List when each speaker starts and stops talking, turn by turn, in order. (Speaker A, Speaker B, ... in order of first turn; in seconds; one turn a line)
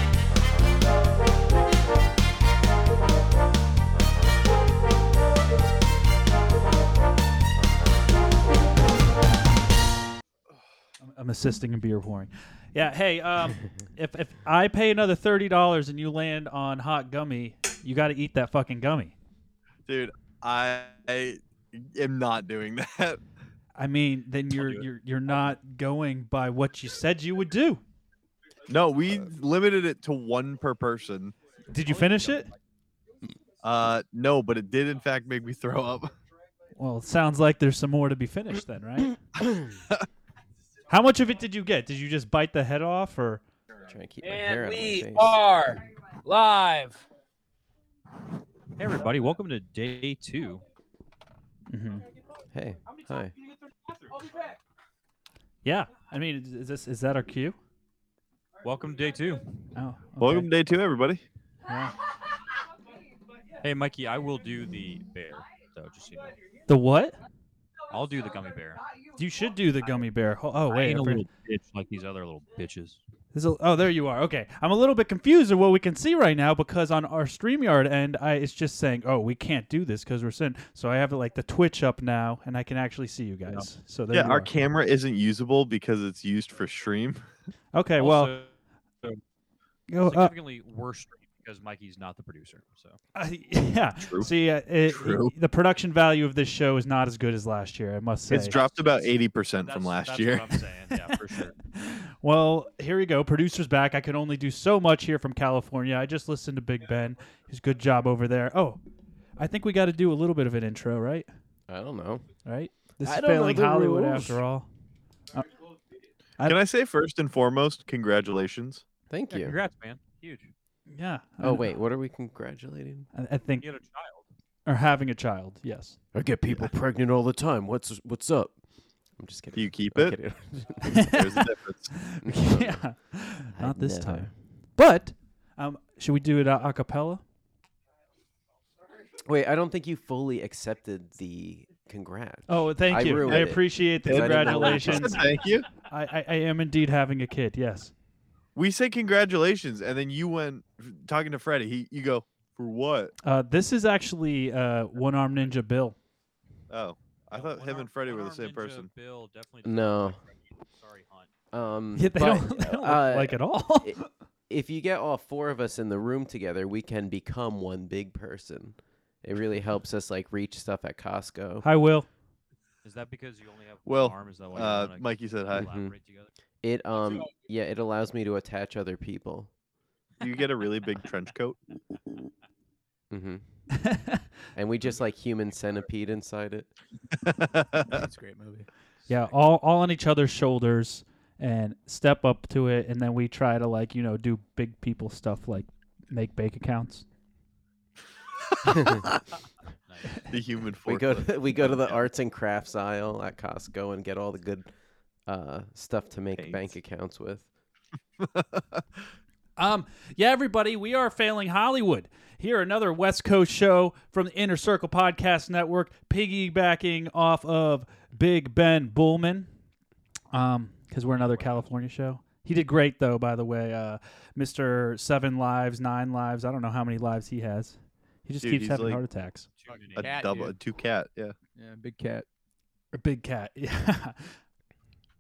Speaker A: 11.0-19.1
Speaker B: 19.9-23.2
Speaker A: 23.8-27.8
Speaker C: 24.5-24.9
Speaker B: 28.7-31.4
Speaker A: 31.7-32.5
Speaker B: 33.6-36.1
Speaker A: 36.8-39.2
Speaker A: 40.9-43.4
Speaker D: 43.9-45.4
Speaker E: 44.2-47.0
Speaker C: 48.8-50.6
Speaker A: 51.7-52.1
Speaker D: 52.5-53.3
Speaker A: 55.6-57.6
Speaker C: 58.6-59.5
Speaker A: 59.8-60.5
Speaker B: 60.2-61.2
Speaker A: 61.7-62.0
Speaker C: 63.6-66.4
Speaker A: 66.7-67.2
Speaker C: 67.9-68.9
Speaker A: 69.2-71.2
Speaker C: 70.7-73.0
Speaker A: 73.3-84.5
Speaker B: 84.1-87.2
Speaker A: 87.7-88.4
Speaker C: 88.0-89.2
Speaker A: 89.9-90.3
Speaker C: 90.0-93.0
Speaker A: 93.1-98.5
Speaker B: 94.0-94.3
Speaker B: 94.9-95.3
Speaker B: 98.3-100.7
Speaker C: 98.5-101.5
Speaker A: 101.7-108.8
Speaker A: 109.4-111.3
Speaker D: 111.7-112.3
Speaker A: 112.4-114.7
Speaker D: 113.0-114.4
Speaker B: 116.4-118.8
Speaker D: 119.1-119.6
Speaker C: 119.3-120.5
Speaker A: 120.9-121.8
Speaker D: 121.4-123.1
Speaker A: 123.1-123.7
Speaker C: 123.6-124.2
Speaker A: 124.7-126.0
Speaker D: 126.1-128.6
Speaker D: 129.2-130.9
Speaker B: 129.5-131.9
Speaker A: 131.0-137.2
Speaker D: 132.2-132.8
Speaker D: 133.5-134.3
Speaker D: 139.2-145.3
Speaker A: 142.5-147.9
Speaker B: 143.2-143.5
Speaker B: 144.0-145.7
Speaker B: 148.6-153.1
Speaker A: 153.2-156.0
Speaker B: 156.7-158.9
Speaker C: 157.3-161.3
Speaker D: 159.6-160.2
Speaker D: 161.5-171.7
Speaker A: 161.9-164.1
Speaker A: 171.6-172.1
Speaker C: 172.8-176.3
Speaker B: 173.8-175.7
Speaker D: 175.5-176.0
Speaker D: 176.6-179.5
Speaker B: 180.2-181.6
Speaker D: 183.1-183.4
Speaker A: 183.8-184.2
Speaker D: 184.5-186.7
Speaker B: 187.2-188.0
Speaker F: 187.9-188.7
Speaker A: 189.1-197.0
Speaker B: 198.5-199.2
Speaker D: 198.7-199.0
Speaker C: 199.8-200.3
Speaker B: 200.2-202.0
Speaker D: 200.8-204.7
Speaker D: 205.2-207.4
Speaker B: 206.3-206.7
Speaker B: 208.2-208.8
Speaker A: 209.6-219.5
Speaker A: 220.3-229.5
Speaker C: 221.1-221.7
Speaker B: 228.4-229.0
Speaker C: 229.6-230.2
Speaker F: 229.7-230.5
Speaker B: 230.0-231.3
Speaker F: 231.6-232.3
Speaker A: 232.9-234.3